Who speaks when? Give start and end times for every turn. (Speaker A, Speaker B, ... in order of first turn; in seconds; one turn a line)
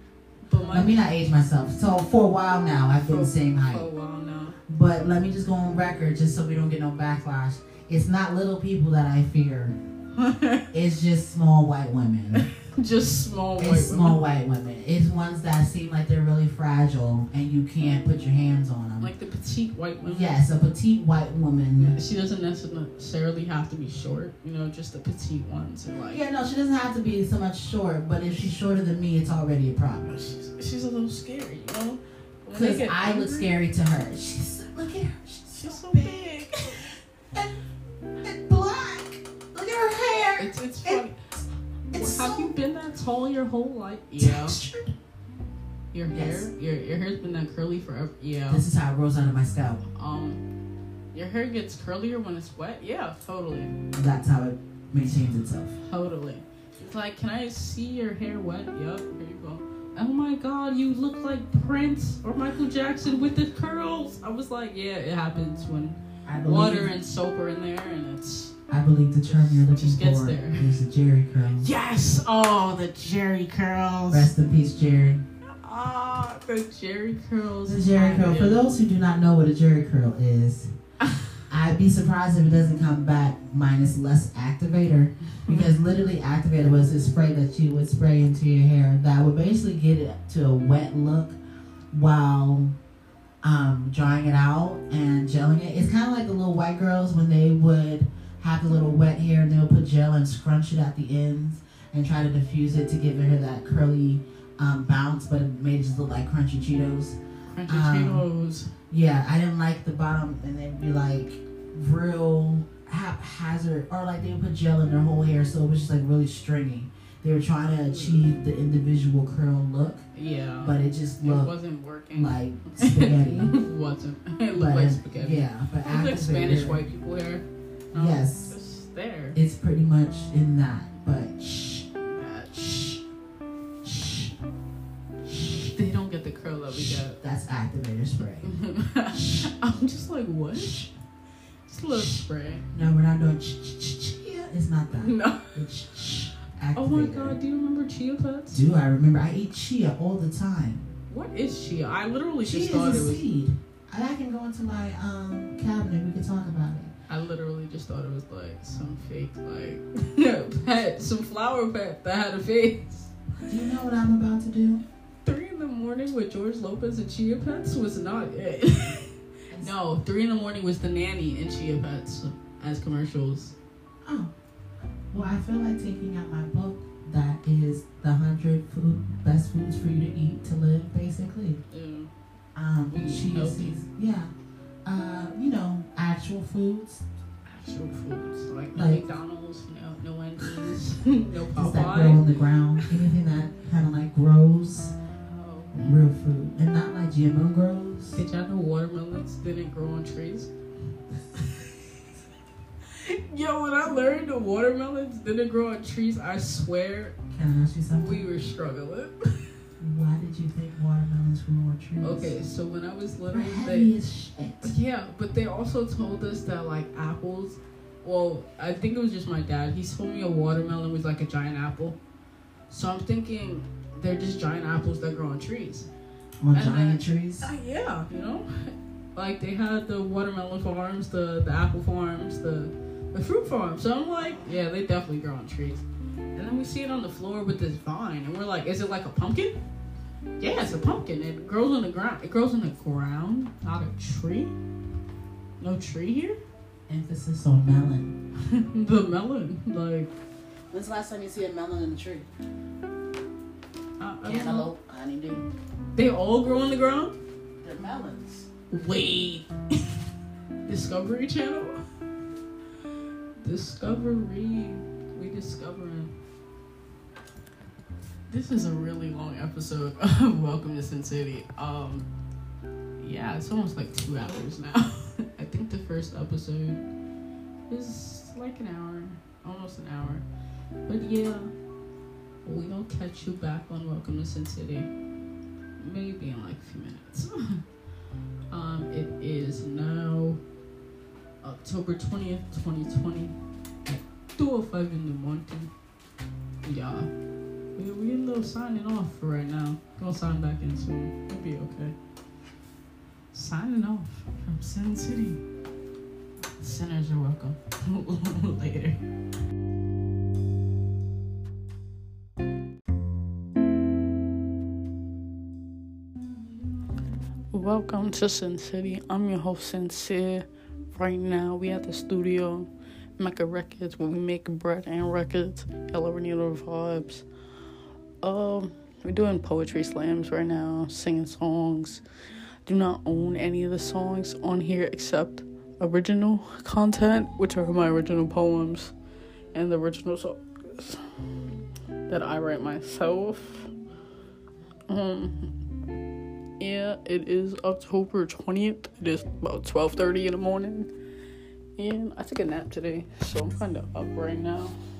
Speaker A: 0.5-1.1
Speaker B: 0.6-3.9
Speaker A: 3.0-4.6
Speaker B: 4.7-9.8
Speaker A: 10.2-10.7
Speaker B: 10.7-12.5
Speaker A: 12.3-14.2
Speaker B: 13.6-19.1
Speaker A: 19.0-20.4
Speaker B: 20.0-22.0
Speaker A: 21.8-26.2
Speaker B: 26.1-30.1
Speaker A: 30.1-33.5
Speaker B: 32.5-36.3
Speaker A: 35.5-36.9
Speaker B: 38.2-41.0
Speaker A: 40.4-41.2
Speaker B: 41.9-42.5
Speaker A: 41.9-44.6
Speaker B: 44.2-44.9
Speaker A: 45.9-48.6
Speaker B: 46.1-46.5
Speaker B: 48.5-49.8
Speaker A: 50.0-50.4
Speaker A: 51.1-53.8
Speaker B: 53.9-55.8
Speaker A: 55.8-68.5
Speaker B: 66.3-66.9
Speaker B: 68.7-71.7
Speaker A: 69.3-70.7
Speaker A: 71.6-74.3
Speaker B: 74.1-75.2
Speaker A: 75.4-78.6
Speaker B: 77.7-80.7
Speaker B: 81.5-91.4
Speaker A: 85.3-85.7
Speaker B: 91.9-92.8
Speaker B: 93.4-108.2
Speaker A: 107.5-108.7
Speaker B: 108.9-120.1
Speaker A: 117.9-118.3
Speaker A: 120.1-129.4
Speaker B: 120.6-121.5
Speaker B: 122.1-123.6
Speaker B: 124.5-126.8
Speaker B: 127.9-128.6
Speaker B: 129.3-131.4
Speaker A: 131.4-133.0
Speaker A: 133.8-134.3
Speaker A: 135.3-137.2
Speaker B: 137.2-138.5
Speaker A: 138.4-140.8
Speaker B: 139.2-139.5
Speaker B: 140.5-140.9
Speaker A: 141.7-142.7
Speaker B: 141.9-142.2
Speaker B: 142.7-147.4
Speaker A: 145.0-145.5
Speaker A: 146.8-148.6
Speaker B: 148.5-150.9
Speaker A: 151.1-153.2
Speaker B: 152.4-156.9
Speaker A: 157.1-163.1
Speaker B: 163.5-164.8
Speaker A: 165.2-173.5
Speaker B: 174.1-174.3
Speaker B: 175.1-181.6
Speaker A: 181.7-182.1
Speaker B: 182.6-184.3
Speaker A: 182.9-183.8
Speaker B: 184.8-187.0
Speaker A: 187.5-192.2
Speaker B: 188.8-189.1
Speaker B: 191.6-194.9
Speaker A: 195.3-195.9
Speaker B: 195.7-198.2
Speaker A: 198.1-200.5
Speaker A: 201.3-201.7
Speaker A: 202.9-207.2
Speaker B: 207.3-208.3
Speaker A: 208.0-209.4
Speaker B: 209.8-212.3
Speaker A: 212.0-213.9
Speaker B: 213.3-214.8
Speaker A: 214.6-222.0
Speaker A: 222.7-225.9
Speaker B: 226.4-227.5
Speaker A: 226.5-235.8
Speaker A: 236.3-239.6
Speaker A: 240.4-244.6
Speaker A: 245.6-246.4
Speaker B: 246.9-248.2
Speaker A: 248.5-250.1
Speaker B: 250.7-252.3
Speaker A: 254.0-254.7
Speaker B: 254.2-255.5
Speaker A: 255.9-257.2
Speaker B: 257.6-258.5
Speaker A: 258.7-260.0
Speaker A: 260.7-261.8
Speaker A: 263.4-266.1
Speaker A: 268.3-272.1
Speaker A: 273.0-276.8
Speaker A: 277.7-280.2
Speaker A: 280.9-281.5
Speaker A: 282.4-284.9
Speaker A: 285.8-287.6
Speaker A: 288.5-290.4
Speaker A: 291.4-293.4
Speaker A: 293.9-295.7
Speaker A: 296.6-297.1
Speaker A: 297.8-301.9
Speaker A: 303.3-305.4
Speaker A: 306.6-309.0
Speaker A: 317.5-327.2
Speaker A: 328.2-332.0
Speaker A: 332.7-338.9
Speaker A: 339.5-341.1
Speaker A: 342.1-343.7
Speaker A: 344.9-345.5
Speaker A: 346.6-350.9
Speaker A: 351.8-354.8